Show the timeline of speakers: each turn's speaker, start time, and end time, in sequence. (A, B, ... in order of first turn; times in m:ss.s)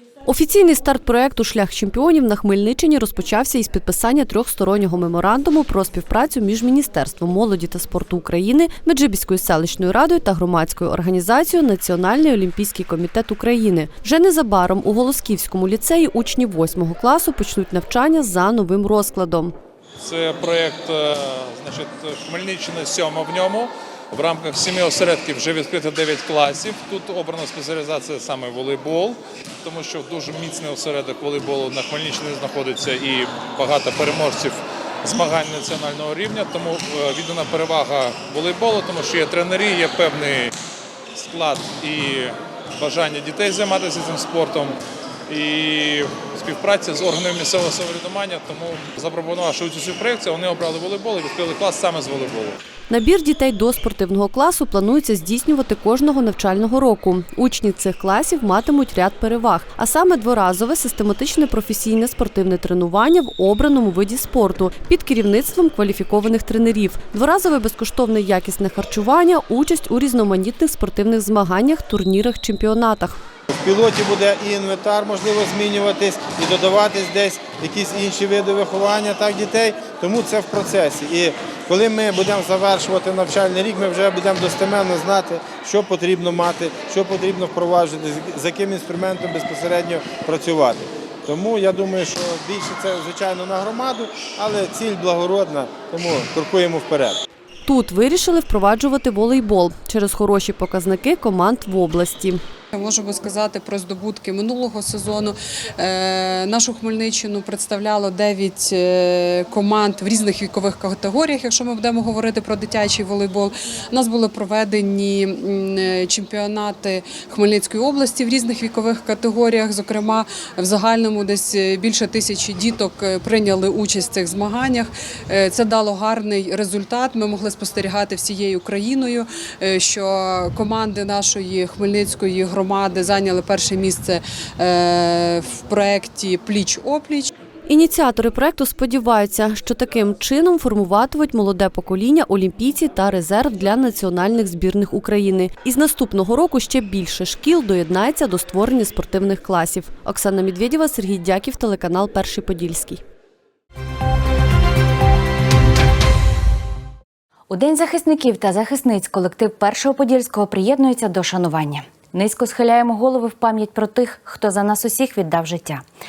0:00.3-0:19.6 A
0:20.0-0:40.5 B
0:41.2-0:52.6 B
0:52.9-1:13.2 A
1:13.5-1:37.2 C
1:37.7-1:42.4 A
1:42.7-2:17.3 D
2:17.7-2:33.0 A
2:37.5-2:45.8 E